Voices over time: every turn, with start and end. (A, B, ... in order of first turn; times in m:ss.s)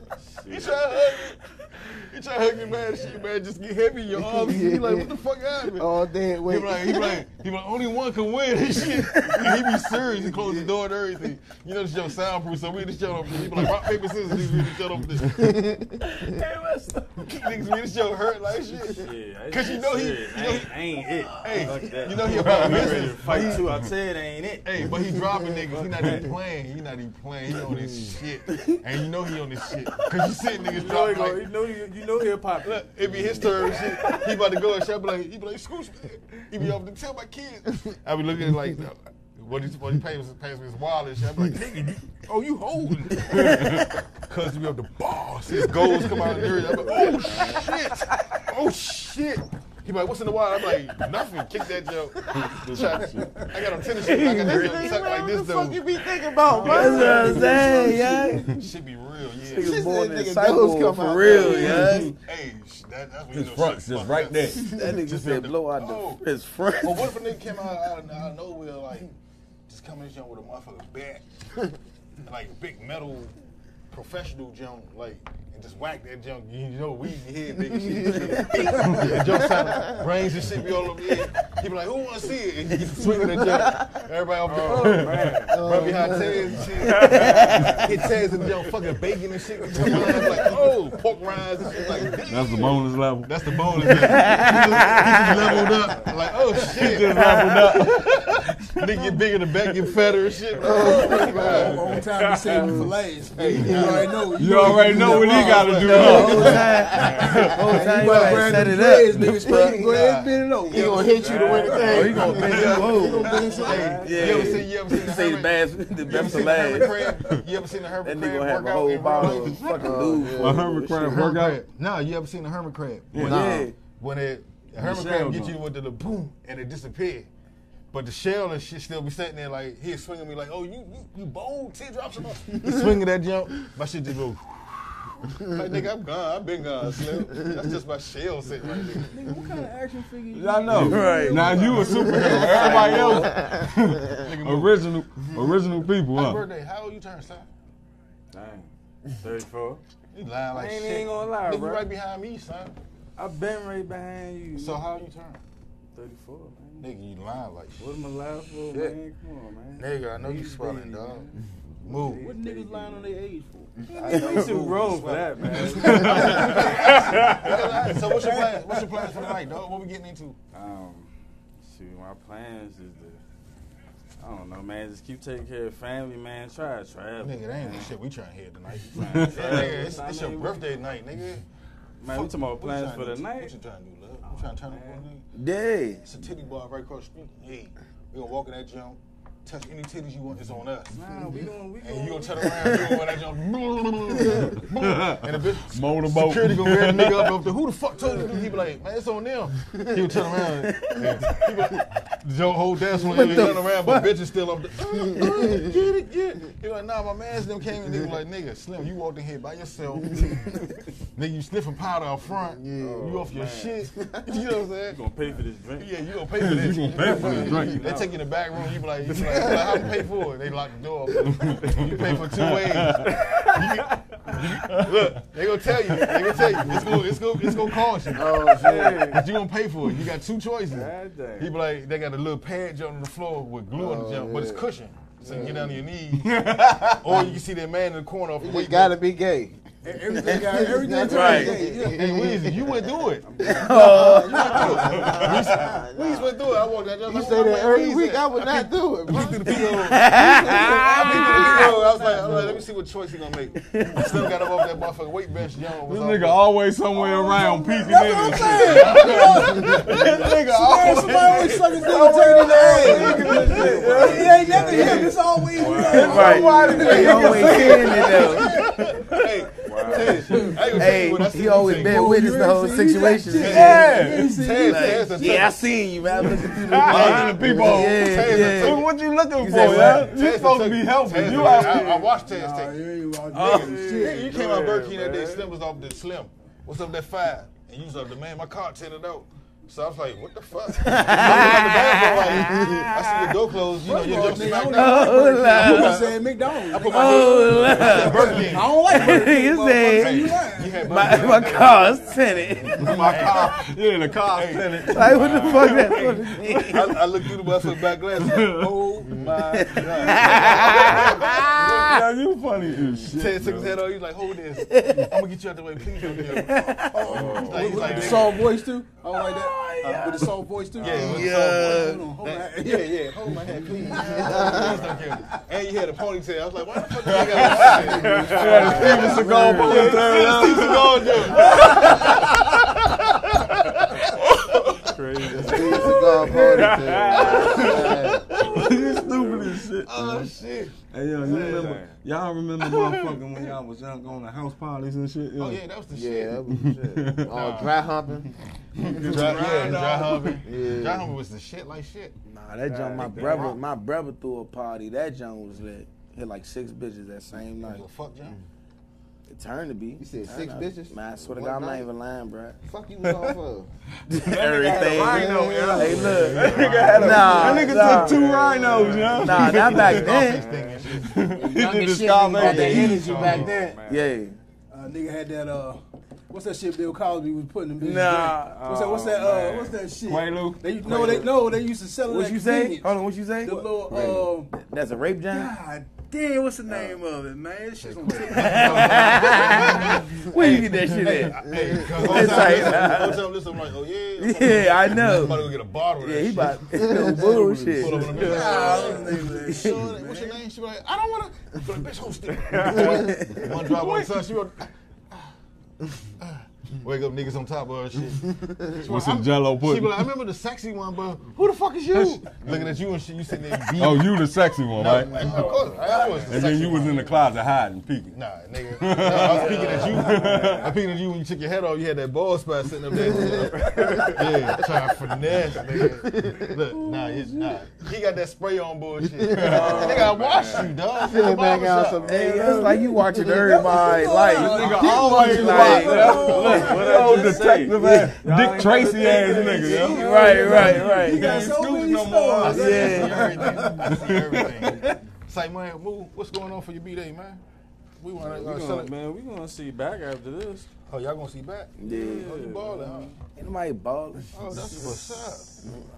0:00.2-0:01.2 A
0:00.5-0:05.9 B
0:04.2-0:05.1 C
0:05.6-0:07.2 C
0:06.5-0:15.4 B
0:15.2-0:16.4 C
0:16.4-0:16.9 D
0:17.2-0:20.8 B
0:18.9-0:24.9 A
0:21.3-0:23.7 B
0:22.2-0:23.9 D
0:24.6-0:31.4 B
0:25.4-0:25.7 C
0:25.7-0:26.2 A
0:27.7-0:28.1 C
0:30.6-0:34.6 A
0:32.6-0:59.8 B
0:43.2-0:43.9 D
0:46.4-0:47.8 A
0:52.3-0:53.6 D
0:52.4-0:52.8 C
0:54.0-0:54.9 E
0:54.0-0:58.4 C
0:56.6-0:58.5 E
0:59.5-1:02.1 E
0:59.6-1:02.0 C
1:01.3-1:06.2 B
1:01.4-1:02.2 D
1:03.3-1:04.7 D
1:04.7-1:07.2 E
1:06.8-1:09.1 B
1:09.7-1:11.2 B
1:12.2-1:13.3 B
1:13.9-1:42.0 B
1:17.9-1:20.0 C
1:23.0-1:24.0 C
1:24.5-1:25.9 A
1:24.5-1:25.5 D
1:25.5-1:27.8 C
1:26.8-1:28.0 A
1:27.4-1:27.7 E
1:29.8-1:30.5 C
1:32.2-1:34.2 D
1:34.0-1:35.6 E
1:35.5-1:36.1 A
1:36.6-1:39.9 D
1:37.1-1:37.7 E
1:40.6-1:42.8 A
1:40.6-1:42.0 C
1:40.8-1:54.1 F
1:42.5-1:42.9 C
1:43.3-1:46.6 B
1:43.6-1:44.0 C
1:44.3-1:46.6 D
1:45.8-1:49.8 E
1:46.0-1:48.1 C
1:46.9-1:47.5 A
1:47.3-1:47.6 D
1:49.2-1:50.0 C
1:49.8-2:00.2 B
1:50.7-1:54.0 C
1:51.0-1:54.6 A
1:51.8-1:57.1 E
1:58.0-2:01.1 E
1:59.2-1:59.6 D
1:59.6-2:01.2 C
2:00.3-2:01.6 D
2:00.9-2:07.3 B
2:03.1-2:03.5 D
2:03.2-2:03.6 C
2:03.2-2:03.8 E
2:04.8-2:05.6 D
2:07.9-2:19.2 B
2:12.7-2:13.0 C
2:19.1-2:22.6 F
2:20.3-2:26.4 D
2:20.7-2:23.2 E
2:22.0-2:23.7 C
2:22.6-2:23.3 B
2:24.1-2:24.9 B
2:26.1-2:27.5 B
2:28.3-2:29.8 A
2:30.1-2:32.8 B
2:30.5-2:31.9 A
2:33.2-2:34.8 A
2:34.6-2:35.4 B
2:36.0-2:36.9 A
2:36.8-2:37.9 B
2:37.8-2:43.2 A
2:39.8-2:41.3 B
2:41.8-2:42.3 B
2:42.1-2:44.5 F
2:43.9-2:50.4 B
2:44.0-2:48.0 A
2:45.8-2:49.3 F
2:50.5-2:51.1 A
2:51.6-2:53.2 A
2:54.2-2:57.9 A
2:57.2-3:01.4 B
2:58.9-3:00.8 A
2:59.1-2:59.7 D
3:02.0-3:03.6 A
3:02.0-3:05.2 B
3:04.2-3:05.0 A
3:05.4-3:06.0 E
3:06.0-3:11.0 B
3:10.9-3:13.0 A
3:11.8-3:30.6 B
3:14.5-3:17.4 D
3:20.8-3:21.5 E
3:22.9-3:24.2 C
3:24.9-3:25.8 C
3:31.2-3:35.0 B
3:32.5-3:33.3 C
3:32.8-3:33.8 A
3:34.0-3:34.3 C
3:34.9-3:35.9 A
3:35.8-3:59.0 B
3:36.3-3:37.8 D
3:37.0-3:38.2 A
3:39.2-3:39.9 C
3:41.2-3:43.1 D
3:43.0-3:44.4 A
3:44.6-3:45.1 D
3:46.1-3:46.7 A
3:48.1-3:49.1 C
3:48.5-3:49.2 A
3:50.7-3:51.5 A
3:53.7-3:54.7 C
3:55.2-3:55.7 A
3:55.2-3:55.8 C
3:56.2-3:57.2 D
3:58.4-3:59.5 C
3:59.8-4:02.1 F
4:00.2-4:06.4 C
4:01.0-4:01.6 E
4:01.8-4:03.3 B
4:03.2-4:05.8 A
4:03.5-4:04.7 E
4:03.7-4:05.3 F
4:04.4-4:16.4 B
4:07.0-4:12.7 C
4:09.7-4:11.7 E
4:13.7-4:14.4 E
4:15.8-4:24.8 D
4:17.0-4:28.8 F
4:18.4-4:22.2 B
4:22.8-4:24.3 C
4:22.9-4:26.0 B
4:23.2-4:27.8 A
4:25.7-4:27.8 D
4:25.9-4:28.6 E
4:26.5-4:32.2 B
4:29.6-4:30.8 A
4:29.9-4:31.0 F
4:30.7-4:40.2 E
4:31.7-4:35.5 F
4:33.4-4:35.6 B
4:33.5-4:34.4 D
4:36.2-4:36.8 F
4:36.5-4:37.4 A
4:36.8-4:41.9 D
4:36.9-4:38.9 B
4:37.4-4:37.8 C
4:39.7-4:59.2 B
4:41.3-4:44.3 F
4:43.4-4:45.5 A
4:43.4-4:43.6 E
4:50.8-4:53.3 E
4:53.7-5:01.8 F
4:54.5-4:56.1 E
4:56.8-5:03.1 E
4:57.6-4:58.4 A
5:00.0-5:03.7 B
5:01.6-5:02.0 A
5:02.8-5:09.1 D
5:04.3-5:12.0 B
5:04.8-5:07.0 E
5:09.1-5:09.6 C
5:09.5-5:12.0 E
5:11.6-5:13.8 D
5:13.1-5:18.4 B
5:14.5-5:15.2 E
5:16.1-5:17.2 E
5:16.9-5:23.2 F
5:17.1-5:18.4 A
5:19.2-5:22.1 E
5:20.8-5:29.2 B
5:23.2-5:25.0 C
5:23.9-5:25.1 F
5:27.0-5:31.7 D
5:27.9-5:28.7 C
5:27.9-5:30.6 A
5:28.0-5:28.3 F
5:28.5-5:30.2 E
5:29.7-5:34.8 B
5:31.3-5:32.2 A
5:34.7-5:39.5 A
5:35.2-5:38.3 C
5:35.4-5:38.9 B
5:37.4-5:45.6 D
5:39.8-5:41.8 B
5:41.2-5:42.0 A
5:42.6-5:43.2 B
5:45.4-5:46.4 B
5:45.9-5:48.3 C
5:46.5-5:47.3 D
5:47.3-5:47.8 B
5:48.8-5:50.4 D
5:49.0-5:52.1 B
5:49.3-5:50.1 A
5:50.4-5:51.1 C
5:52.3-5:57.9 E
5:52.8-5:53.5 A
5:52.9-5:53.6 B
5:57.5-5:58.4 B
5:59.3-6:02.6 E
6:00.0-6:01.9 C
6:02.6-6:03.7 C
6:03.0-6:03.4 D
6:04.1-6:08.4 E
6:04.1-6:10.1 D
6:05.0-6:06.7 C
6:06.1-6:07.8 B
6:06.4-6:11.0 A
6:08.6-6:11.3 B
6:09.1-6:10.5 E
6:11.0-6:13.1 D
6:11.4-6:13.8 C
6:12.3-6:12.9 E
6:12.4-6:13.8 F
6:12.4-6:13.5 B
6:12.6-6:14.1 A
6:13.9-6:14.4 E
6:14.7-6:24.5 F
6:17.8-6:18.7 E
6:18.6-6:19.8 A
6:20.0-6:21.2 D
6:22.1-6:25.5 E
6:25.3-6:30.1 F
6:26.7-6:27.0 B
6:27.8-6:36.7 B
6:28.3-6:33.3 E
6:31.4-6:32.2 C
6:34.2-6:38.3 E
6:36.8-6:37.4 C
6:37.4-6:40.4 F
6:37.7-6:45.3 B
6:38.0-6:39.2 A
6:38.2-6:39.6 C
6:39.4-6:40.0 E
6:42.4-6:44.0 A
6:42.7-6:43.0 C
6:42.9-6:43.7 E
6:46.2-6:54.1 B
6:48.8-6:50.1 D
6:53.8-6:55.4 D
6:54.7-6:57.2 B
6:55.0-6:57.1 A
6:56.2-6:58.2 D
6:58.1-7:12.5 B
6:58.7-7:00.7 D
6:59.0-7:00.8 A
7:02.9-7:04.3 C
7:03.5-7:04.5 A
7:05.7-7:06.6 C
7:09.1-7:10.0 C
7:09.3-7:09.8 D
7:09.4-7:10.1 E
7:09.4-7:10.7 A
7:10.9-7:14.0 C
7:12.0-7:18.2 E
7:13.3-7:17.5 F
7:14.4-7:23.2 D
7:15.4-7:20.9 A
7:19.1-7:24.1 F
7:19.6-7:21.4 E
7:22.4-7:27.4 B
7:22.4-7:23.4 E
7:23.8-7:24.9 D
7:28.0-7:28.9 B
7:28.2-7:30.7 A
7:30.9-7:33.2 B
7:31.8-7:32.4 E
7:31.8-7:33.2 A
7:33.4-7:34.7 E
7:34.3-7:35.7 B